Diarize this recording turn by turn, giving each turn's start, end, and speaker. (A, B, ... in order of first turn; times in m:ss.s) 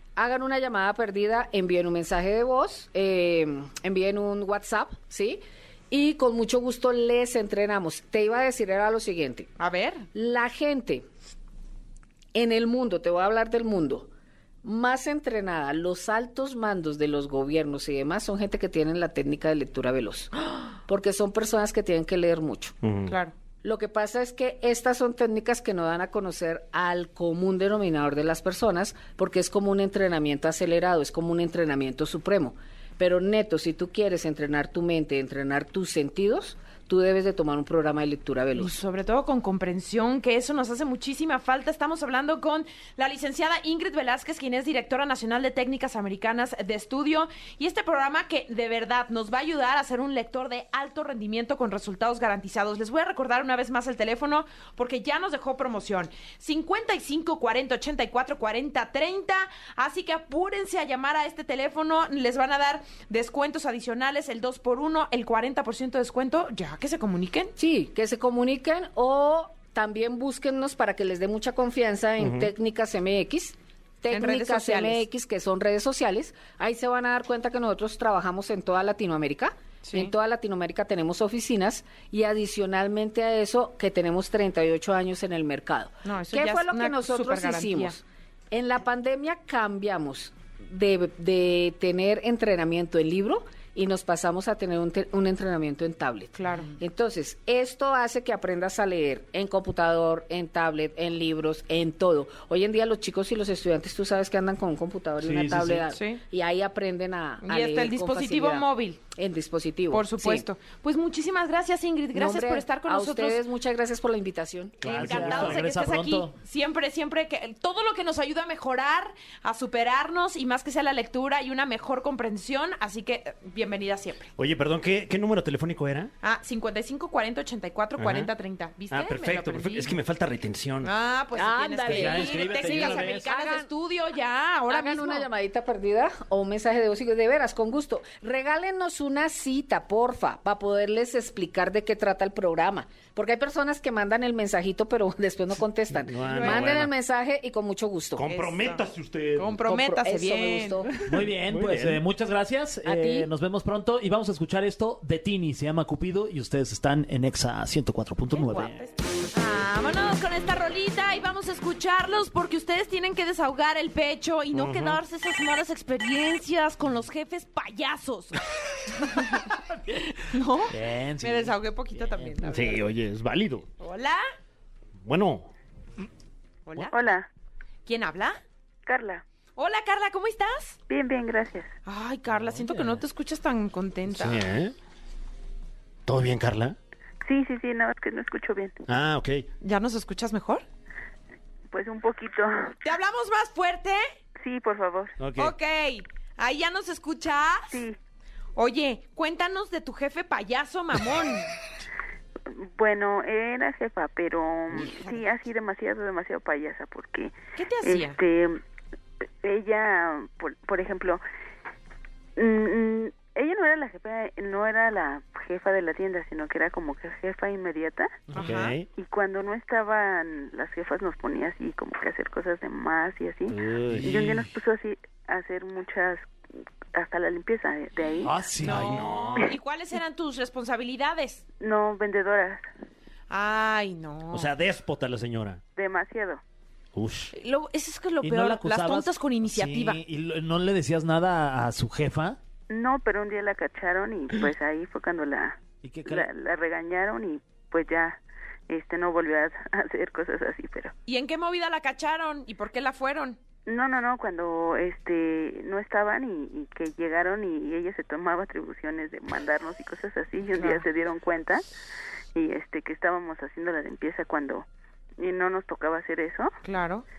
0:00.2-0:09.5 A
0:09.6-0:10.0 B
0:10.1-0:11.1 A
0:12.3-0:14.1 A
0:14.6-0:22.7 A
0:22.8-0:23.2 C
0:23.1-0:23.3 B
0:23.6-0:38.8 A
0:38.5-1:07.5 B
1:07.6-1:50.5 A
1:12.2-1:12.5 C
1:14.1-1:15.0 B
1:19.8-1:20.1 B
1:26.0-1:28.0 B
1:36.4-1:36.7 B
1:45.2-1:45.8 D
1:45.9-1:46.2 B
1:47.4-1:49.0 B
1:49.9-1:53.4 B
1:52.1-1:55.6 A
1:54.8-2:04.3 B
1:54.8-1:56.3 D
1:54.9-1:55.6 C
2:04.4-2:06.1 C
2:06.2-2:09.9 B
2:08.0-2:08.3 C
2:08.9-2:10.9 C
2:10.8-2:15.3 B
2:11.3-2:13.7 A
2:11.8-2:13.3 D
2:14.7-2:28.4 A
2:25.9-2:26.9 C
2:26.2-2:26.7 B
2:28.2-2:29.6 C
2:28.3-2:28.8 B
2:29.4-2:30.8 B
2:29.6-2:30.9 A
2:31.1-2:38.8 D
2:31.2-2:32.0 C
2:32.8-2:33.3 A
2:38.3-2:52.8 B
2:44.5-2:45.0 C
2:50.7-2:51.6 D
2:52.4-2:53.7 C
2:53.8-2:54.2 B
2:55.0-2:55.5 C
2:56.6-2:57.0 B
2:56.9-2:57.3 E
2:57.8-2:58.4 B
2:58.8-2:59.2 E
2:59.6-3:00.8 B
3:00.9-3:01.7 E
3:01.8-3:04.4 B
3:04.1-3:04.7 C
3:06.1-3:06.8 C
3:07.2-3:08.8 E
3:08.9-3:09.4 C
3:09.6-3:10.6 B
3:11.7-3:12.7 E
3:12.8-3:14.0 B
3:14.4-3:15.1 E
3:15.2-3:15.5 C
3:15.4-3:17.7 B
3:17.7-3:18.0 E
3:18.6-3:21.5 B
3:22.5-3:28.6 E
3:27.6-3:28.2 B
3:29.4-3:31.2 E
3:32.4-3:38.2 E
3:38.3-3:38.7 B
3:38.3-3:38.9 C
3:39.0-3:46.3 E
3:43.5-3:44.4 C
3:43.9-3:44.3 D
3:46.9-3:48.3 E
3:48.2-3:49.1 D
3:48.6-3:51.4 B
3:48.6-3:49.5 C
3:51.6-3:52.6 E
3:53.3-3:54.5 B
3:54.3-3:55.6 C
3:55.8-3:56.4 E
3:56.9-3:57.3 C
3:57.3-4:00.0 B
3:58.2-4:02.4 D
4:02.7-4:10.9 E
4:05.8-4:06.3 D
4:11.1-4:13.4 B
4:13.7-4:21.6 E
4:20.6-4:20.8 B
4:22.3-4:24.6 E
4:25.2-4:26.5 E
4:26.6-4:27.0 B